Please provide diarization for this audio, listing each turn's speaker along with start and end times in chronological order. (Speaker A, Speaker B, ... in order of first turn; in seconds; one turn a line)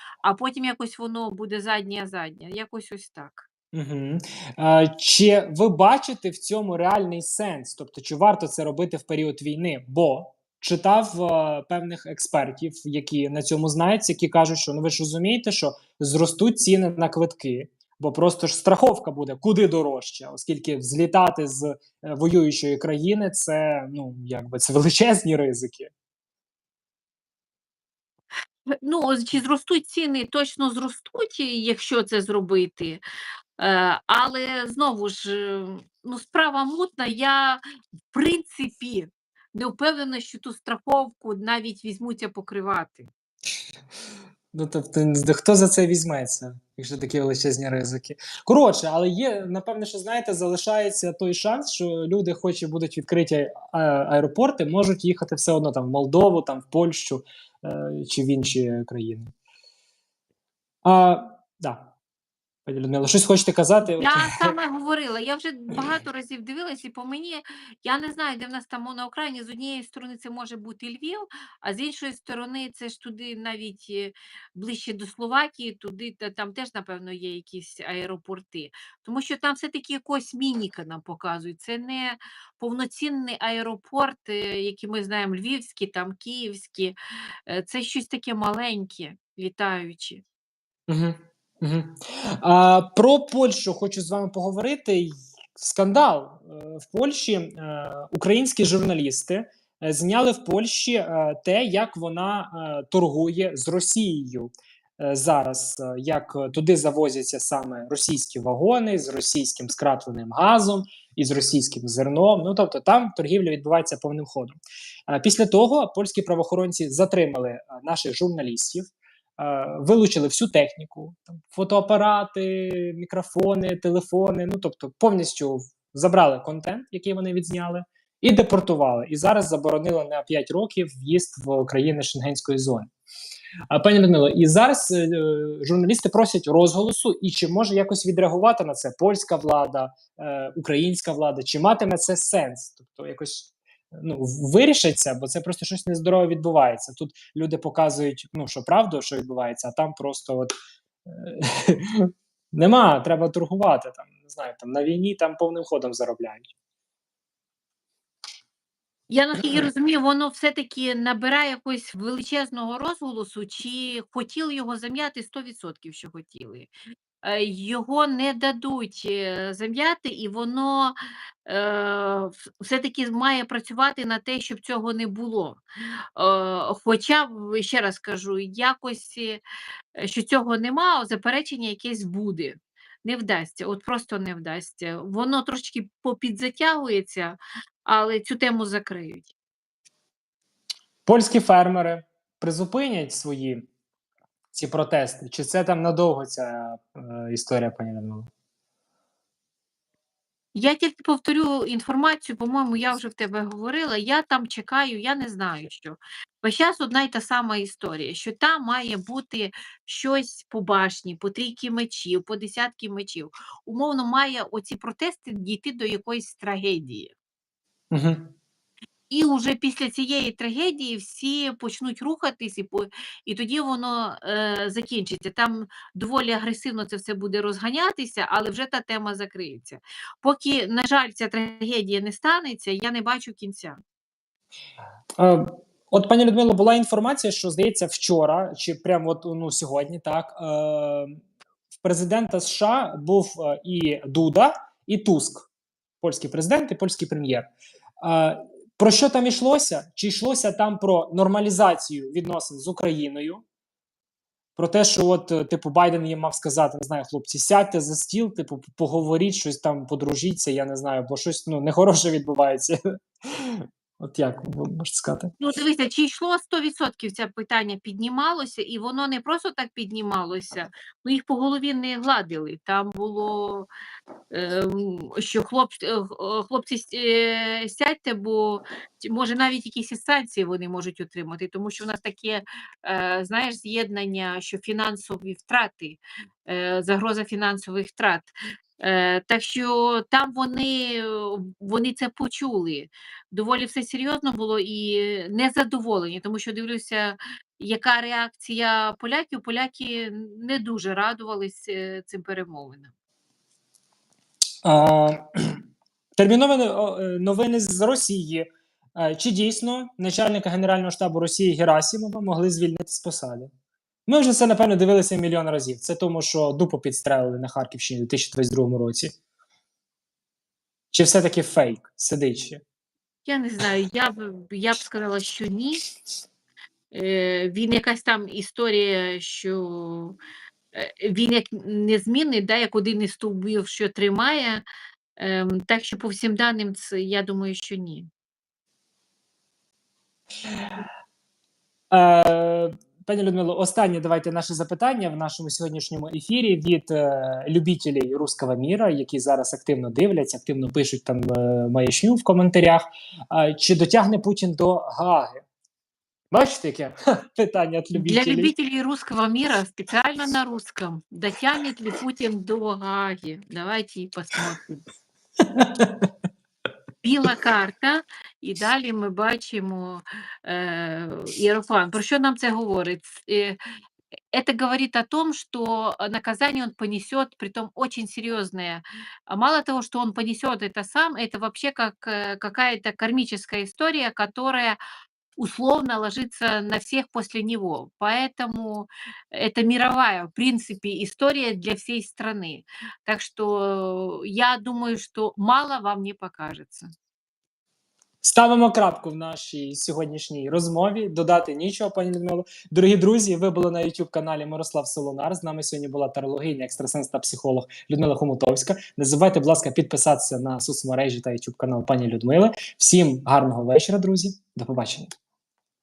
Speaker A: 0.2-3.5
Speaker B: 3.7-25.9
Speaker A: 28.8-33.0
Speaker A: 33.6-43.1
Speaker B: 44.5-59.3
Speaker B: 60.8-61.9
Speaker B: 62.6-64.5
Speaker A: 64.0-86.9
Speaker A: 87.5-90.2
Speaker B: 90.9-114.5
Speaker B: 115.1-132.9
Speaker B: 133.7-150.5
Speaker B: 151.1-156.5
Speaker A: 159.1-166.7
Speaker A: 167.2-175.6
Speaker A: 176.2-179.4
Speaker A: 179.9-189.3
Speaker B: 191.1-193.7
Speaker B: 194.5-198.3
Speaker A: 200.5-217.1
Speaker B: 217.9-218.3
Speaker A: 219.1-233.8
Speaker B: 235.2-241.2
Speaker B: 241.8-245.5
Speaker B: 246.0-247.5
Speaker B: 248.0-253.4
Speaker B: 254.6-262.8
Speaker B: 263.3-265.3
Speaker A: 265.4-273.7
Speaker A: 274.3-302.9
Speaker B: 304.6-305.6
Speaker B: 306.2-313.5
Speaker B: 314.1-319.1
Speaker B: 320.9-322.6
Speaker A: 323.2-325.8
Speaker A: 326.9-330.2
Speaker A: 330.7-334.6
Speaker A: 335.2-338.1
Speaker B: 341.9-355.4
Speaker B: 356.3-358.5
Speaker A: 357.9-364.9
Speaker B: 365.6-365.9
Speaker A: 367.0-373.6
Speaker A: 374.3-384.8
Speaker A: 385.4-396.9
Speaker B: 398.2-415.1